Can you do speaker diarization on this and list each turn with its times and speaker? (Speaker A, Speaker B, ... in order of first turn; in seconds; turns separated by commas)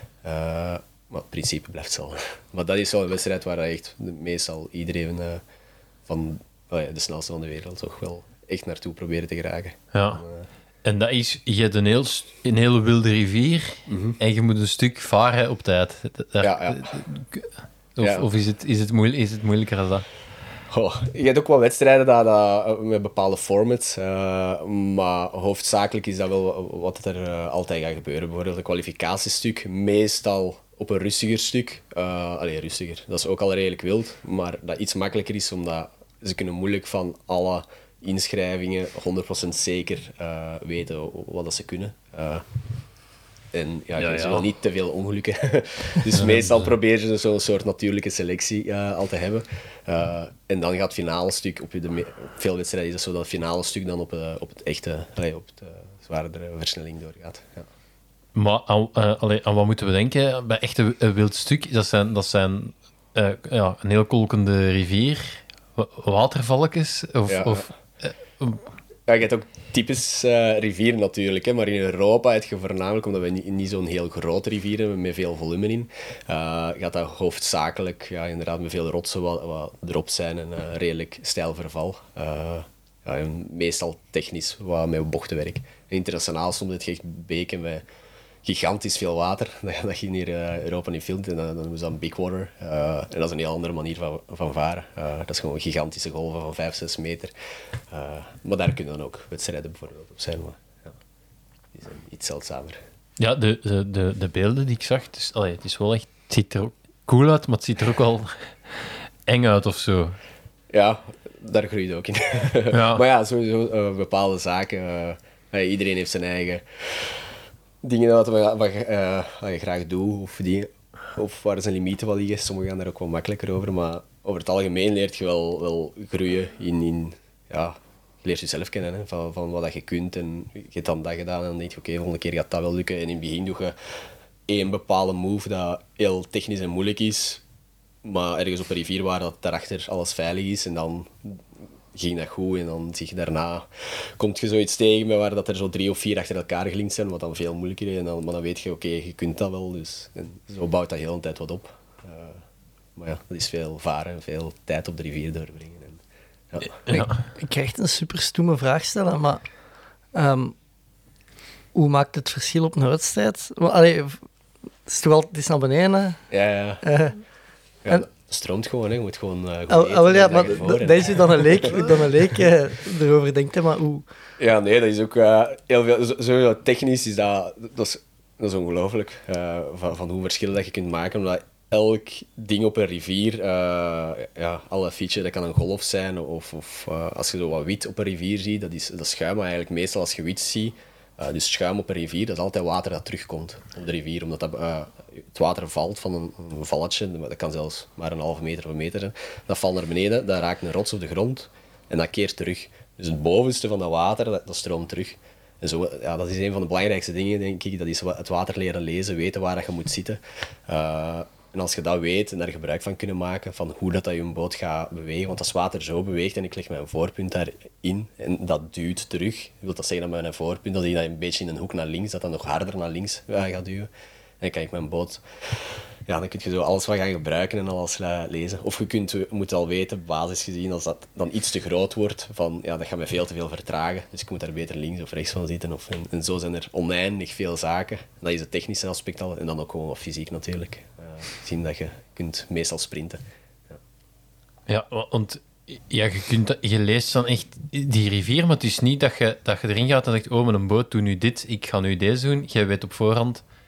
Speaker A: 0.2-5.4, Speaker A: 6.0-10.5, Speaker B: 9.9-10.2, Speaker B: 10.8-20.1, Speaker A: 13.9-14.2, Speaker A: 16.4-16.9, Speaker A: 18.0-18.3, Speaker A: 20.7-42.4, Speaker A: 43.5-57.7, Speaker B: 44.0-44.4, Speaker B: 46.1-46.7, Speaker B: 58.3-68.7, Speaker A: 67.3-67.7, Speaker A: 69.1-87.8, Speaker A: 88.4-97.3, Speaker A: 97.9-100.9, Speaker A: 101.7-102.8, Speaker B: 103.2-110.2, Speaker A: 110.7-117.2, Speaker B: 112.7-113.0, Speaker A: 117.8-133.8, Speaker A: 134.5-137.4, Speaker A: 138.0-152.4, Speaker A: 152.9-156.0, Speaker A: 156.5-156.8, Speaker B: 156.9-157.2, Speaker C: 156.9-159.4, Speaker C: 160.1-160.5, Speaker C: 161.7-164.2, Speaker C: 164.8-166.2, Speaker A: 166.3-166.8, Speaker C: 166.8-167.2, Speaker A: 167.8-172.4, Speaker C: 169.7-174.1, Speaker A: 174.4-223.9, Speaker A: 224.4-243.8, Speaker B: 244.7-253.4